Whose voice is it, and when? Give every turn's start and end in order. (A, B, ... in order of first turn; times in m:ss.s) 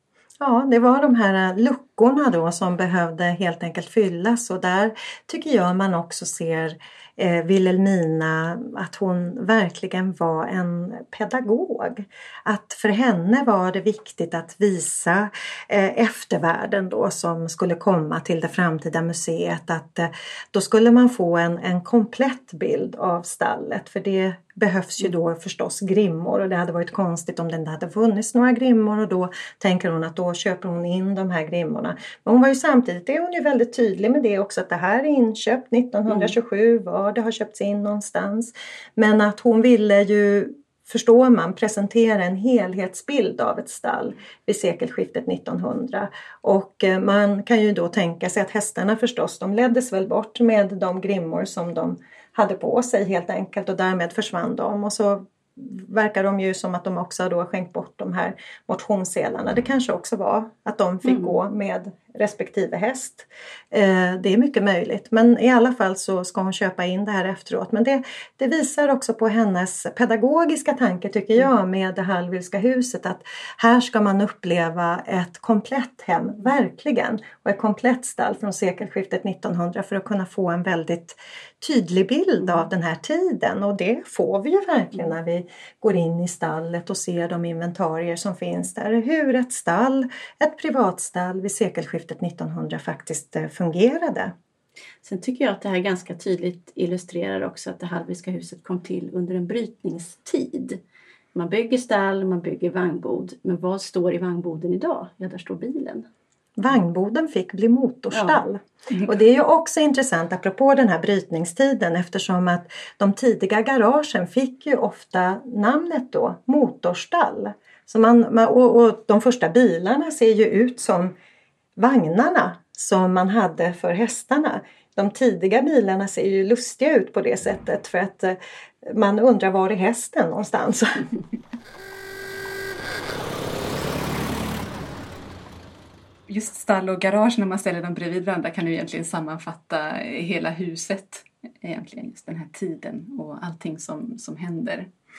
0:00.4-1:34.3 A
1:35.0-1:40.8 B
1:41.3-1:46.1 B
1:46.6-2:01.1 A
1:48.1-1:48.4 B
2:01.8-2:11.1 A
2:16.3-2:24.9 C